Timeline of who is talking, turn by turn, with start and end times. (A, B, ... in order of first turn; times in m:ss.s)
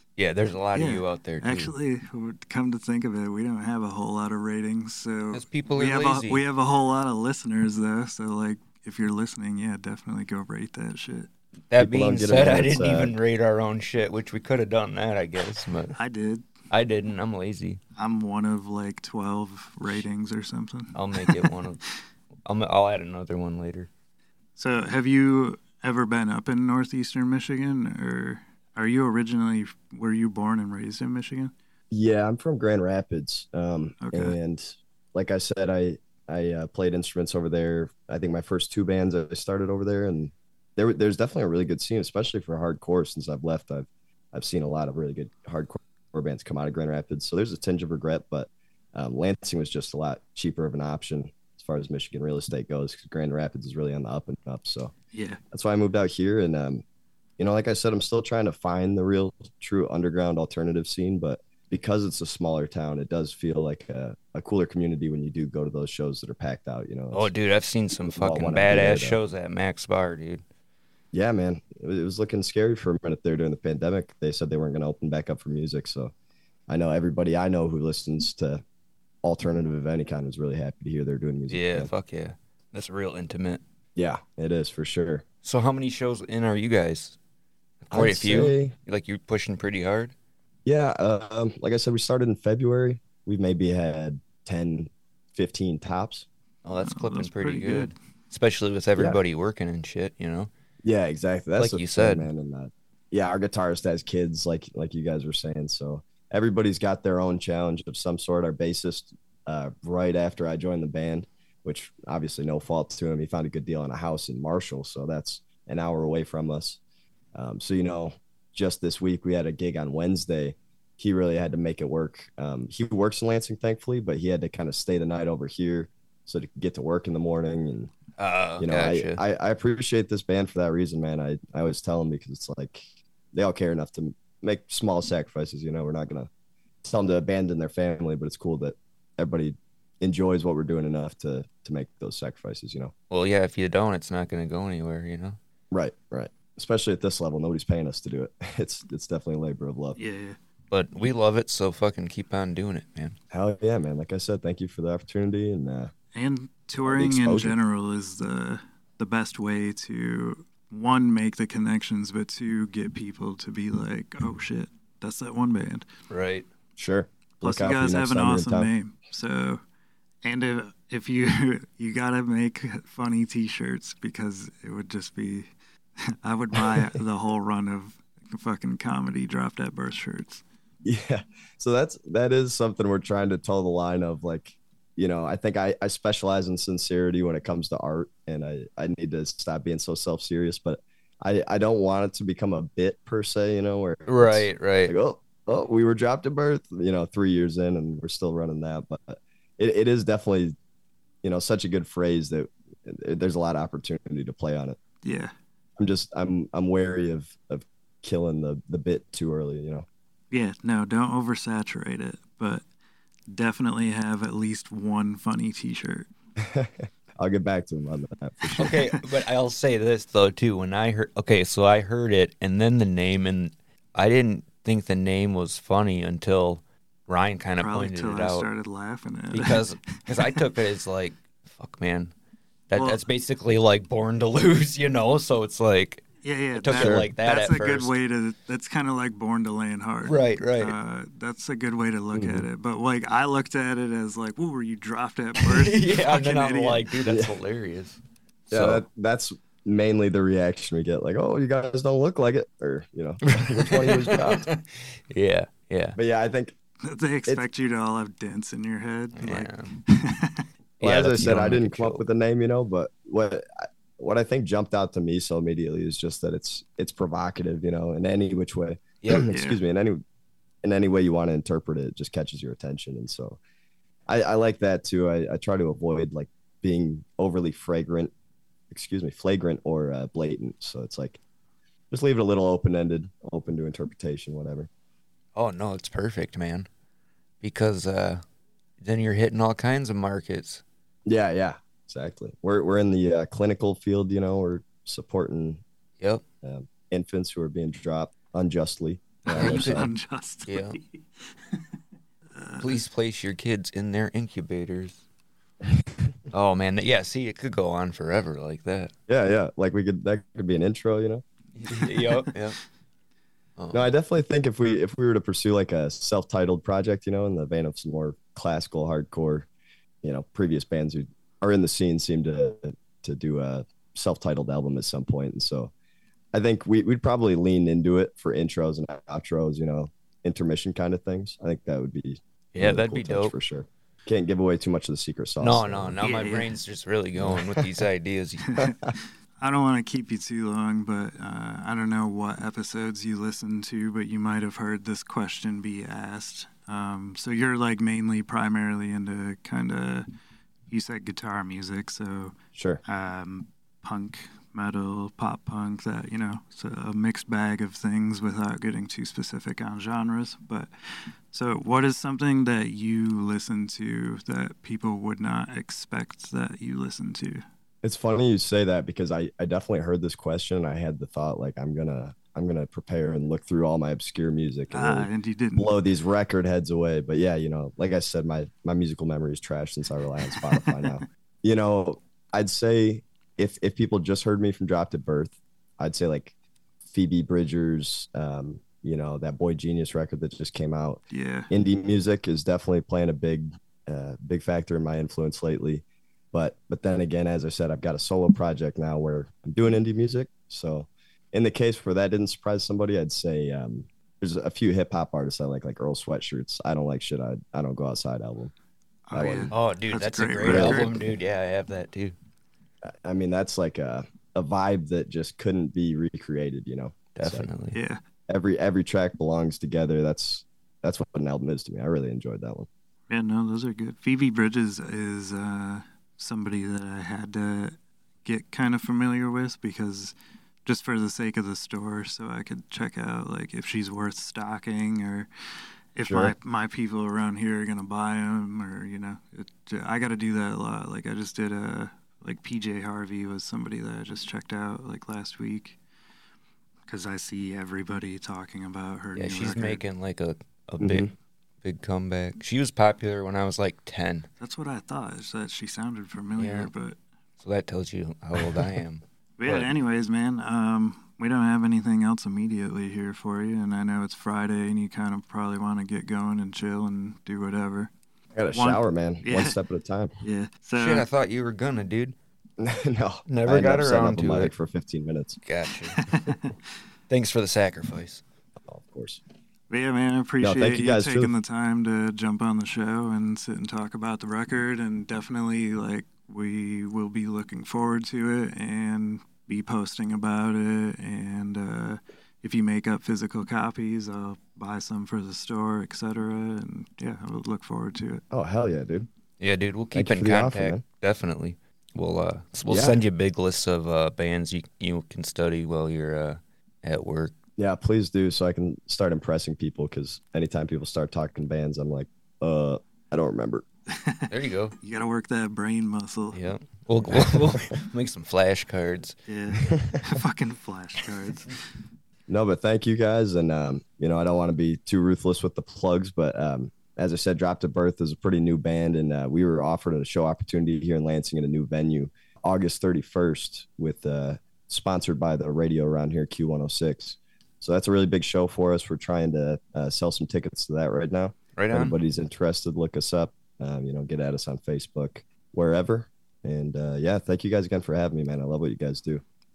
0:00.2-0:01.7 A
0:00.7-0:11.3 B
0:05.3-0:06.4 A
0:11.7-0:16.0 A
0:11.8-0:13.2 C
0:16.0-0:16.5 B
0:16.7-0:17.8 A
0:18.0-0:21.4 B
0:20.9-0:21.8 A
0:22.5-0:23.9 A
0:24.6-0:31.5 B
0:31.9-0:54.9 C
0:34.0-0:34.4 B
0:55.1-0:55.4 B
0:55.5-0:56.8 C
0:57.4-1:07.3 C
1:07.1-1:10.4 A
1:08.0-1:09.2 C
1:11.1-1:16.1 C
1:16.7-1:18.6 C
1:19.2-1:21.9 C
1:21.5-1:23.6 A
1:24.0-1:25.2 C
1:25.4-1:27.2 A
1:27.8-1:30.1 A
1:27.9-1:28.8 C
1:30.6-1:36.3 C
1:36.6-1:40.5 A
1:36.8-1:37.9 B
1:40.8-1:56.8 C
1:41.6-1:42.3 A
1:57.4-2:07.9 C
2:08.2-2:09.2 A
2:08.6-2:16.3 C
2:16.8-2:22.9 C
2:23.1-2:25.4 A
2:25.7-2:30.0 C
2:30.0-2:30.4 B
2:30.7-2:33.2 A
2:33.3-2:35.9 C
2:36.1-2:45.9 B
2:36.8-2:37.6 C
2:46.1-2:46.4 A
2:46.8-2:48.7 C
2:47.4-2:49.6 B
2:50.2-2:55.5 B
2:56.2-3:00.4 B
3:00.8-3:20.6 C
3:14.1-3:14.9 A
3:21.2-3:24.8 C
3:25.0-3:25.3 B
3:25.8-3:29.9 C
3:30.3-3:32.6 B
3:33.3-3:36.1 B
3:36.4-3:38.7 C
3:38.6-3:38.8 B
3:38.6-3:48.5 A
3:47.6-3:50.4 B
3:49.3-3:52.1 A
3:52.7-3:57.9 A
3:52.8-3:53.0 B
3:56.2-4:06.9 B
3:56.8-3:57.1 C
4:00.1-4:00.8 A
4:02.1-4:02.5 C
4:05.4-4:08.8 A
4:07.0-4:07.3 C
4:08.5-4:14.5 C
4:13.3-4:16.0 A
4:16.0-4:16.6 C
4:16.8-4:20.4 B
4:19.2-4:19.7 A
4:20.8-4:22.0 A
4:20.8-4:30.0 C
4:29.0-4:29.3 A
4:29.3-4:29.6 B
4:30.6-4:33.4 C
4:34.1-4:38.1 C
4:38.7-4:41.2 C
4:41.9-4:44.7 C
4:45.4-4:46.7 A
4:47.4-4:48.2 A
4:48.8-4:50.6 A
4:51.1-4:55.6 C
4:56.4-4:59.9 C
4:59.3-4:59.9 A
4:59.3-5:01.6 B
5:00.5-5:00.8 A
5:02.3-5:02.8 B
5:02.6-5:05.0 A
5:05.6-5:06.2 C
5:06.3-5:08.9 A
5:09.1-5:11.2 C
5:11.6-5:12.6 A
5:13.6-5:13.9 A
5:13.7-5:19.5 C
5:20.0-5:25.7 C
5:26.3-5:36.0 C
5:32.5-5:33.3 A
5:35.4-5:38.5 A
5:36.0-5:36.5 B
5:38.5-5:50.1 B
5:38.6-5:38.9 C
5:50.7-5:52.4 B
5:52.6-5:52.8 C
5:52.9-6:07.4 B
6:07.8-6:26.3 C
6:14.7-6:15.8 B
6:20.3-6:21.0 B
6:26.9-6:48.5 C
6:31.1-6:31.5 B
6:49.1-6:51.0 B
6:49.1-6:49.5 C
6:49.5-6:52.2 A
6:50.4-6:50.9 C
6:52.8-6:57.5 C
6:57.2-6:57.8 A
6:57.7-6:58.0 B
6:58.3-7:02.7 C
7:03.1-7:15.3 B
7:16.0-7:25.8 B
7:16.1-7:16.3 C
7:26.9-7:29.8 B
7:29.2-7:31.1 A
7:30.8-7:31.1 C
7:31.6-7:34.3 A
7:34.4-7:37.0 B
7:36.4-7:36.7 A
7:37.4-7:39.7 A
7:39.4-7:47.9 B
7:48.4-7:50.1 C
7:48.5-7:49.6 B
7:50.2-7:51.1 B
7:50.8-7:52.2 A
7:52.6-7:55.4 C
7:53.3-7:54.5 A
7:55.5-7:56.3 A
7:56.0-7:56.3 B
7:57.1-7:58.2 A
7:58.7-7:59.2 C
7:59.7-8:18.2 B
8:00.4-8:01.3 C
8:18.3-8:19.1 C
8:19.4-8:27.3 A
8:19.9-8:20.8 C
8:22.7-8:23.0 C
8:27.6-8:33.6 C
8:33.9-8:36.4 B
8:34.3-8:34.8 A
8:36.3-8:39.2 A
8:39.3-8:41.6 B
8:39.6-8:40.0 C
8:42.3-9:09.2 C
9:01.6-9:02.0 A